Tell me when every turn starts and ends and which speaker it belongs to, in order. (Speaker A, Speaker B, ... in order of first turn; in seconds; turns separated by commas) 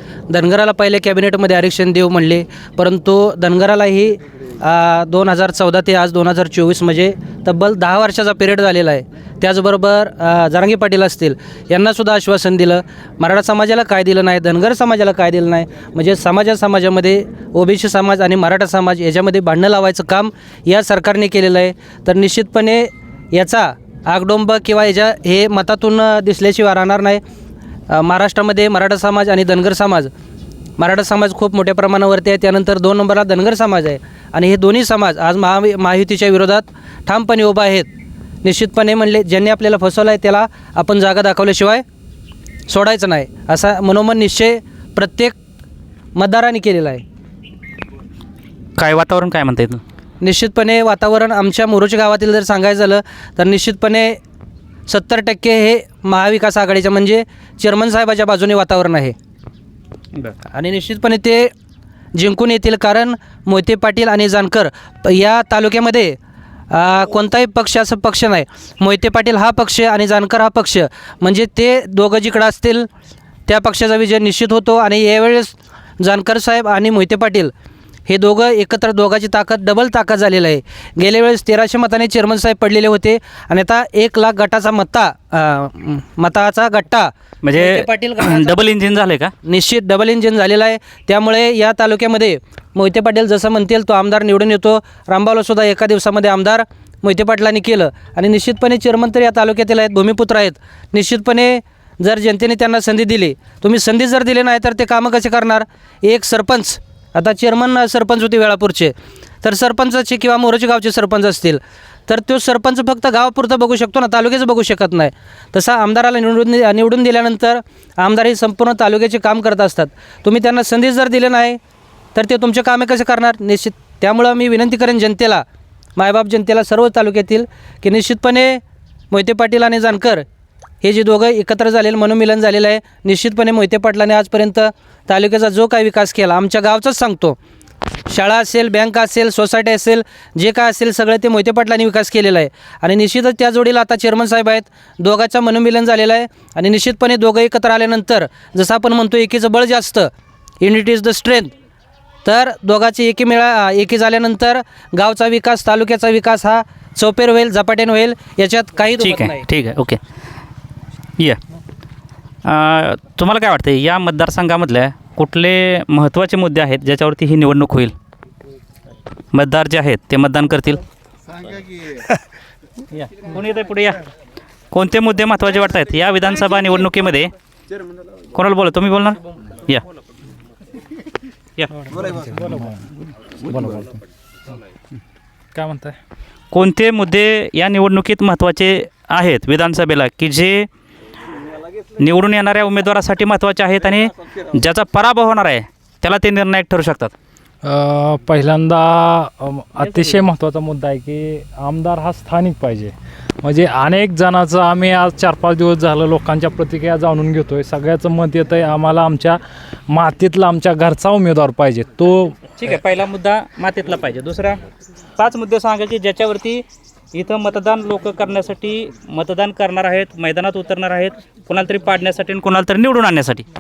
Speaker A: 0.3-27.2, Speaker A: 27.9-30.1, Speaker A: 30.8-37.9, Speaker A: 38.4-41.8, Speaker A: 42.7-45.3, Speaker A: 46.1-47.0, Speaker B: 48.8-49.8, Speaker A: 50.2-54.2, Speaker A: 54.9-59.1, Speaker A: 60.5-61.5, Speaker A: 62.2-66.2, Speaker A: 66.7-72.9, Speaker A: 73.5-77.5, Speaker A: 78.1-88.6, Speaker B: 87.4-89.3, Speaker A: 89.5-121.6, Speaker A: 122.2-125.4, Speaker A: 126.0-130.2, Speaker A: 130.8-137.4, Speaker A: 138.1-150.1, Speaker A: 150.6-151.5, Speaker A: 152.2-159.4, Speaker B: 159.0-160.0, Speaker B: 162.4-167.9, Speaker B: 169.3-170.8, Speaker B: 172.9-174.0, Speaker B: 174.7-177.3, Speaker B: 178.3-179.8, Speaker C: 181.9-182.8, Speaker C: 183.4-183.9, Speaker C: 185.6-186.0, Speaker B: 186.5-190.7, Speaker B: 192.0-197.1, Speaker C: 197.6-209.4, Speaker B: 199.8-200.2, Speaker C: 209.9-212.4, Speaker B: 212.6-214.6, Speaker B: 215.2-223.5